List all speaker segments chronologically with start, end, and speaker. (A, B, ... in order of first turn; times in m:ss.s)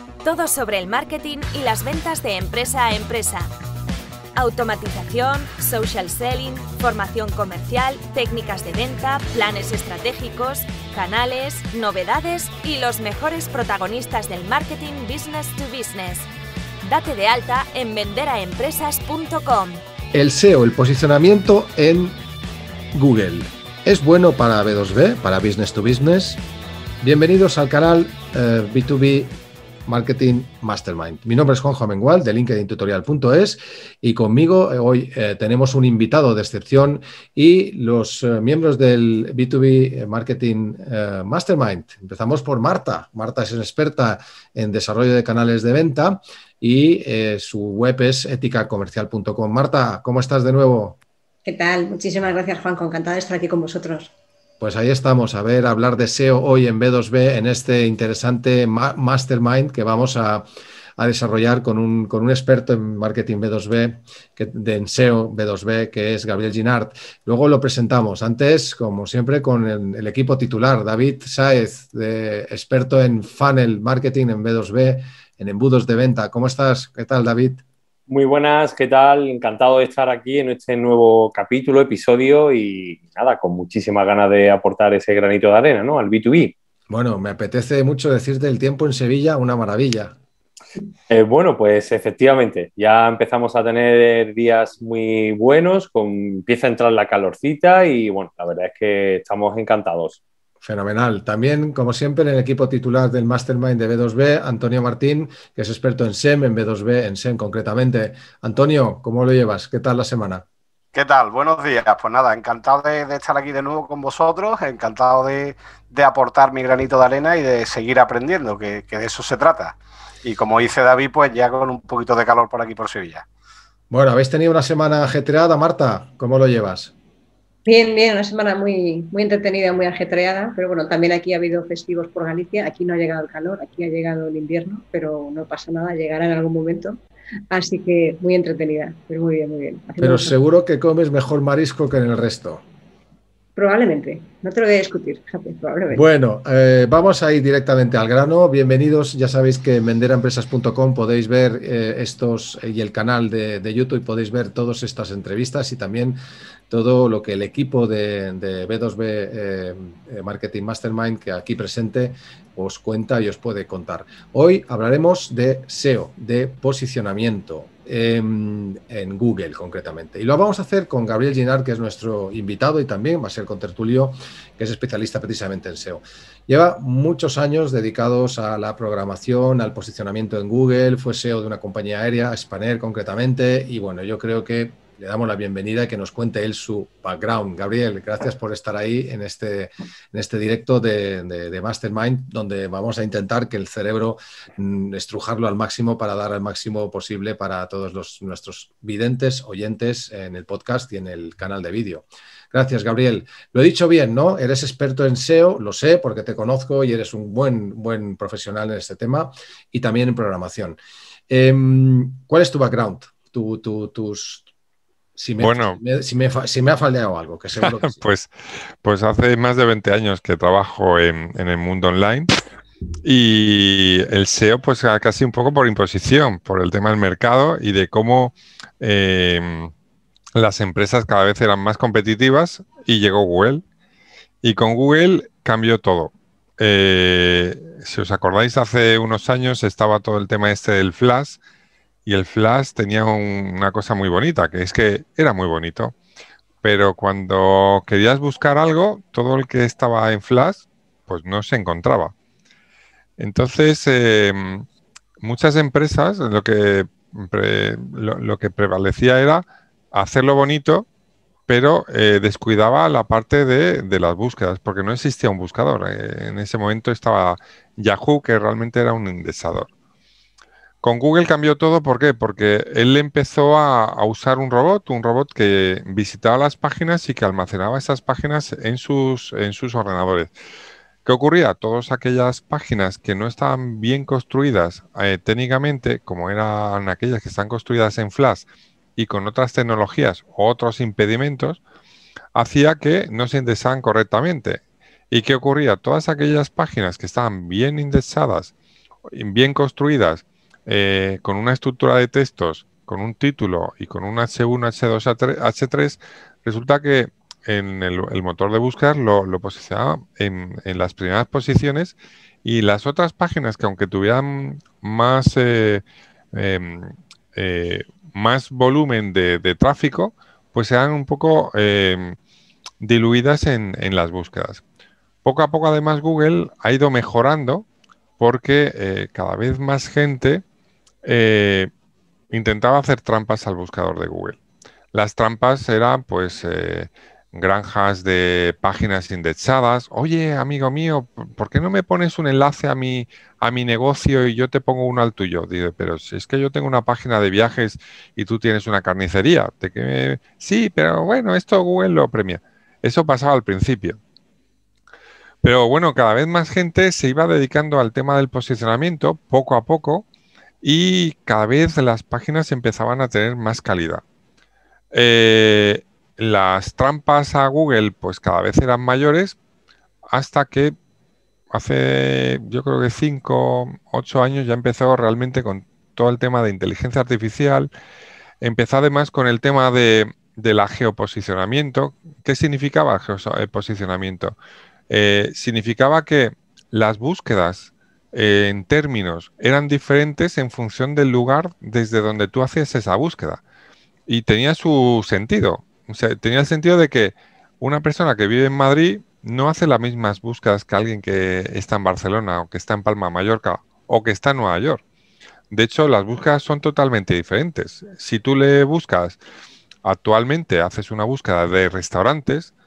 0:00.2-0:03.5 A
0:04.4-0:16.3 A
0:16.8-0:19.8 A
0:20.1-0:22.2 B
0:22.9-0:26.4 B
0:27.0-0:29.3 B
0:29.9-0:51.0 B
0:51.4-0:54.1 C
0:54.6-1:00.4 B
1:01.0-1:17.6 B
1:18.1-1:26.5 D
1:26.9-1:30.2 B
1:31.1-1:40.2 D
1:40.6-1:50.4 B
1:50.9-2:03.3 E
2:03.9-2:06.9 B
2:07.7-2:17.0 C
2:17.5-2:20.4 C
2:20.0-2:22.6 B
2:23.6-2:26.0 C
2:25.9-2:36.2 B
2:36.7-3:30.8 B
3:31.3-3:34.4 B
3:35.2-3:38.0 B
3:35.4-3:35.8 F
3:37.7-3:38.3 F
3:38.8-3:42.3 F
3:43.0-3:49.7 F
3:50.4-3:53.6 F
3:54.4-4:01.4 F
4:02.1-4:06.0 F
4:06.6-4:12.1 F
4:13.2-4:14.6 F
4:15.2-4:20.9 F
4:21.5-4:29.7 F
4:30.8-4:40.3 F
4:41.0-4:51.6 F
4:52.4-4:58.5 F
4:59.1-5:22.2 F
5:22.8-5:24.6 F
5:25.2-5:27.7 F
5:28.2-5:30.4 F
5:31.0-5:31.7 F
5:32.3-5:34.4 F
5:34.9-5:54.0 F
5:55.4-6:00.1 F
6:00.6-6:04.0 F
6:04.9-6:09.4 F
6:10.1-6:10.8 F
6:11.5-6:17.7 F
6:18.4-6:24.4 F
6:24.9-6:33.4 F
6:34.1-6:44.8 F
6:45.5-6:49.2 F
6:49.8-6:52.5 F